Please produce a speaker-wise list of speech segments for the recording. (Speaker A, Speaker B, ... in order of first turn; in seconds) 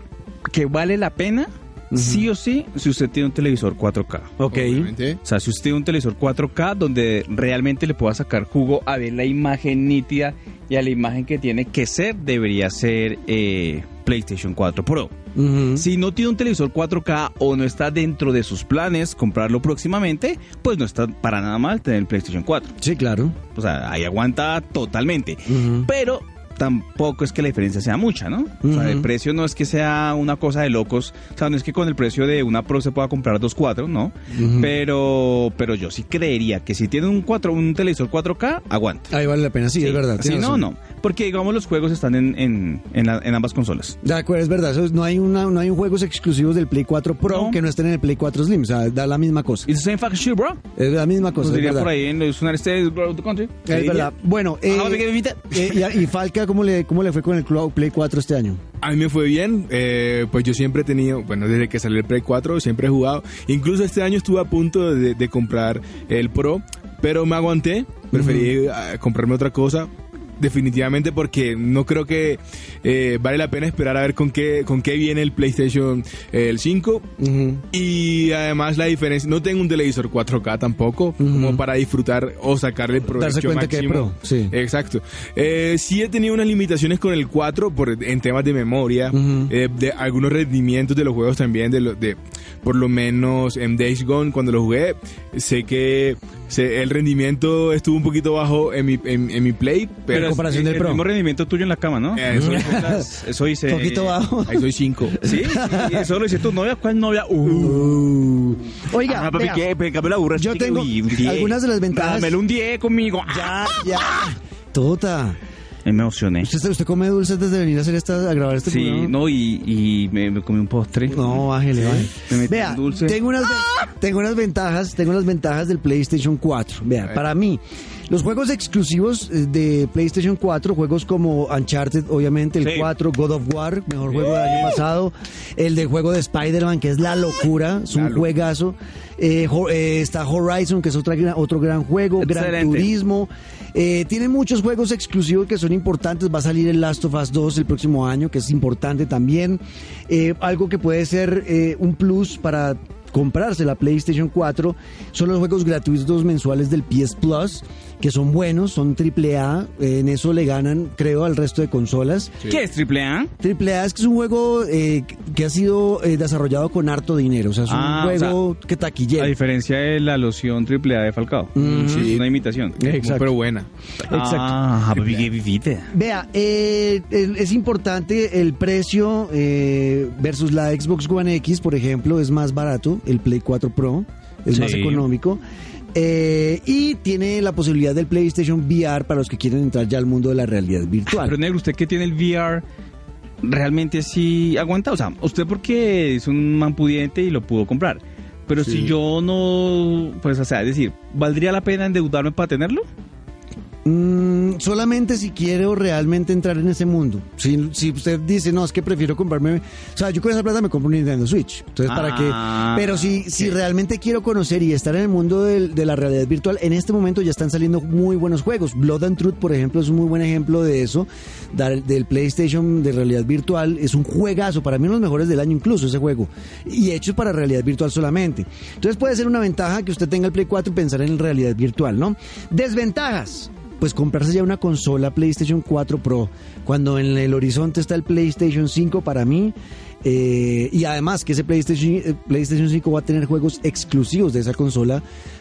Speaker A: 0.5-4.3, 5.2-15.1, 15.7-22.7, 23.5-39.1, 39.8-44.0, 47.3-47.6, 49.6-50.6, 51.4-54.1, 54.7-55.9, 100.1-104.2, 105.2-107.8, 109.0-114.1, 115.8-116.5, 118.6-123.2, 132.6-132.9, 142.2-142.9, 162.4-163.3, 167.7-168.4, 169.2-172.8, 174.1-175.9, 184.5-185.1, 191.1-192.6, 193.4-202.8, 211.8-213.5
Speaker B: 1.9-2.3, 4.4-4.9, 15.3-15.9, 22.8-23.4, 25.5-25.9, 28.6-29.1, 34.3-34.7, 39.1-40.7, 44.0-49.7, 50.8-51.9, 53.6-58.6, 68.1-68.5, 77.2-77.6, 81.2-81.6, 83.1-84.5, 89.1-89.5, 100.1-101.1, 102.3-103.1, 103.7-106.1, 107.5-109.6, 110.3-112.4, 113.3-115.4, 116.4-119.1, 121.1-162.3, 163.4-169.3, 171.6-172.1, 172.8-173.3, 174.1-174.6, 175.9-185.4, 185.9-191.3, 203.8-245.0
Speaker C: 4.5-5.2, 58.8-77.1, 77.7-100.4, 102.2-102.9, 104.5-105.2, 137.9-138.3, 171.6-173.7